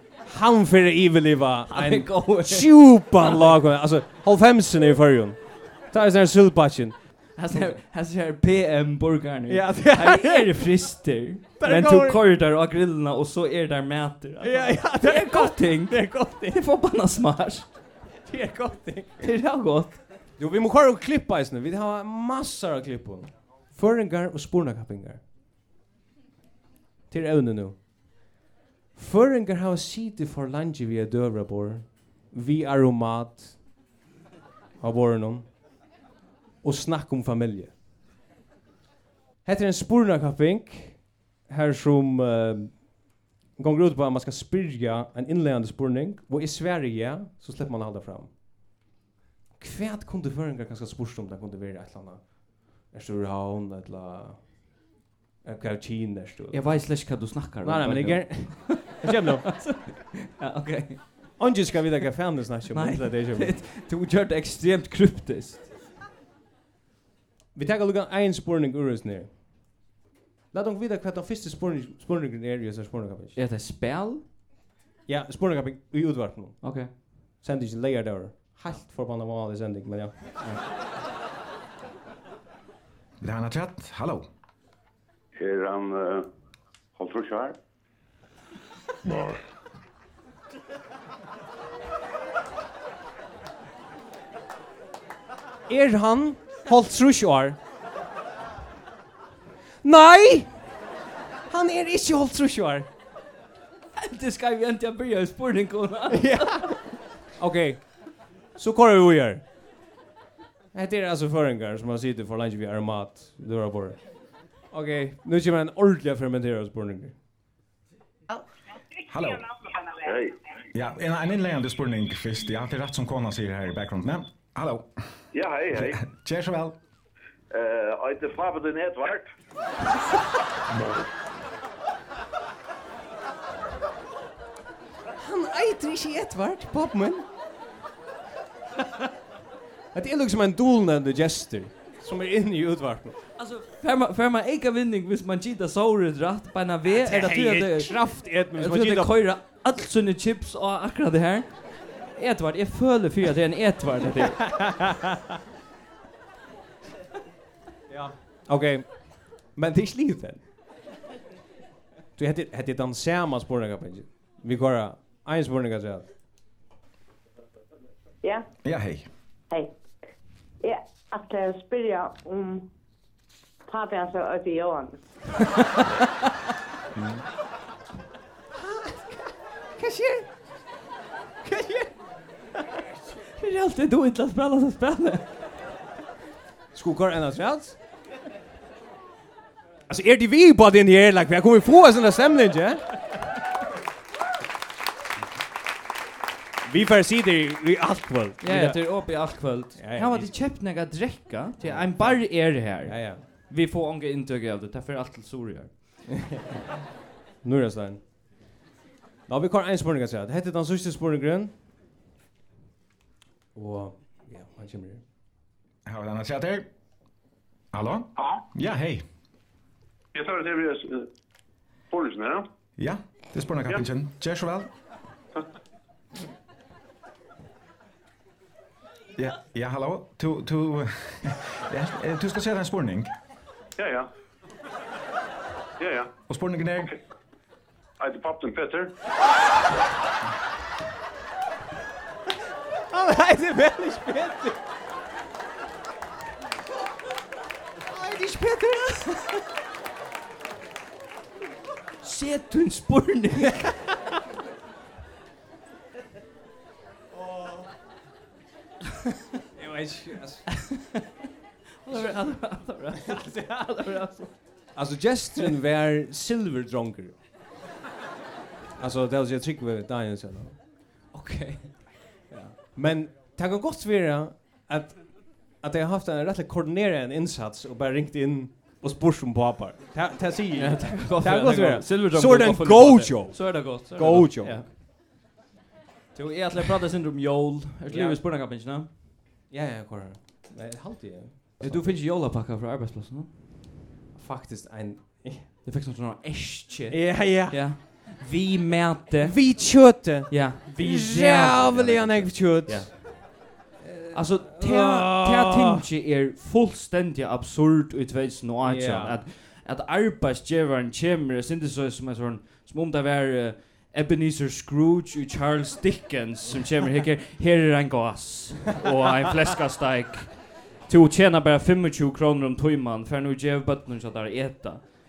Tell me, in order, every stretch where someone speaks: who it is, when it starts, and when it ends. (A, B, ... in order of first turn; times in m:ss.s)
0:00.2-0:07.0 A
0:01.7-0:03.5 B
0:07.4-0:17.8 B
0:07.5-0:07.8 A
0:09.5-0:10.7 A
0:11.6-0:12.2 A
0:14.4-0:16.6 A
0:18.2-0:19.3 A
0:19.2-0:20.0 B
0:20.4-0:25.2 A
0:27.1-0:27.8 A
0:29.0-0:33.6 A
0:34.8-0:35.5 A
0:36.6-0:37.7 A
0:39.4-0:42.9 A
0:43.6-0:48.3 A
0:49.6-0:54.7 A
0:55.4-0:56.8 A
0:56.5-1:01.3 B
0:57.6-0:59.5 A
1:01.4-1:03.5 A
1:02.7-1:05.6 B
1:07.6-1:09.7 A
1:10.5-1:13.4 A
1:13.4-1:14.2 B
1:15.1-1:20.4 A
1:16.6-1:16.9 B
1:23.2-1:24.3 C
1:25.4-1:26.3 D
1:27.0-1:27.6 D
1:35.7-1:37.6 A
1:39.8-1:40.6 A
1:41.5-1:42.9 A
1:44.0-1:46.8 B
1:46.1-1:48.0 A
1:48.5-1:49.4 A
1:50.7-1:54.0 A
1:54.7-1:57.1 A
1:59.1-1:59.5 C
2:00.0-2:00.3 D
2:00.7-2:04.9 C
2:05.3-2:05.9 D
2:05.7-2:06.8 C
2:07.5-2:09.3 D
2:15.2-2:17.3 A
2:19.9-2:23.2 A
2:23.4-2:31.6 B
2:26.9-2:29.2 A
2:32.1-2:34.4 B
2:34.3-2:35.2 A
2:37.9-2:40.4 A
2:42.2-2:46.1 A
2:48.6-2:49.1 C
2:50.6-2:52.6 E
2:53.7-2:55.0 E
2:58.6-3:00.3 A
3:01.4-3:01.9 A
3:02.6-3:02.8 A
3:03.4-3:05.2 B
3:06.7-3:07.8 A
3:09.9-3:13.2 A
3:16.6-3:19.0 A
3:18.4-3:26.0 B
3:19.8-3:20.4 A
3:21.6-3:23.2 A
3:26.2-3:26.5 A
3:27.4-3:28.0 A
3:29.3-3:31.5 A
3:33.6-3:35.0 A
3:35.9-3:36.7 C
3:37.7-3:39.0 C
3:40.1-3:41.0 D
3:41.9-3:42.4 D
3:42.8-3:44.7 C
3:49.2-3:53.1 C
3:53.8-3:54.1 D
3:55.8-3:56.1 D
3:56.3-3:56.9 C
3:58.0-3:58.9 D
4:02.9-4:04.6 A
4:07.9-4:09.4 A
4:12.0-4:13.6 B
4:13.6-4:13.9 A
4:19.6-4:20.5 A
4:20.6-4:21.0 B
4:21.8-4:24.5 B
4:23.1-4:23.5 A
4:24.7-4:27.2 A
4:28.8-4:30.6 A
4:31.1-4:32.5 B
4:32.7-4:44.6 A
4:40.6-4:44.7 B
4:46.1-4:48.9 B
4:47.9-4:48.2 A
4:49.5-4:52.0 A
4:51.6-4:53.5 B
4:54.1-4:55.5 A
4:55.6-5:03.5 B
4:56.9-4:57.7 A
4:59.2-5:03.1 A
5:03.8-5:05.8 A
5:04.1-5:24.8 B
5:08.6-5:09.2 A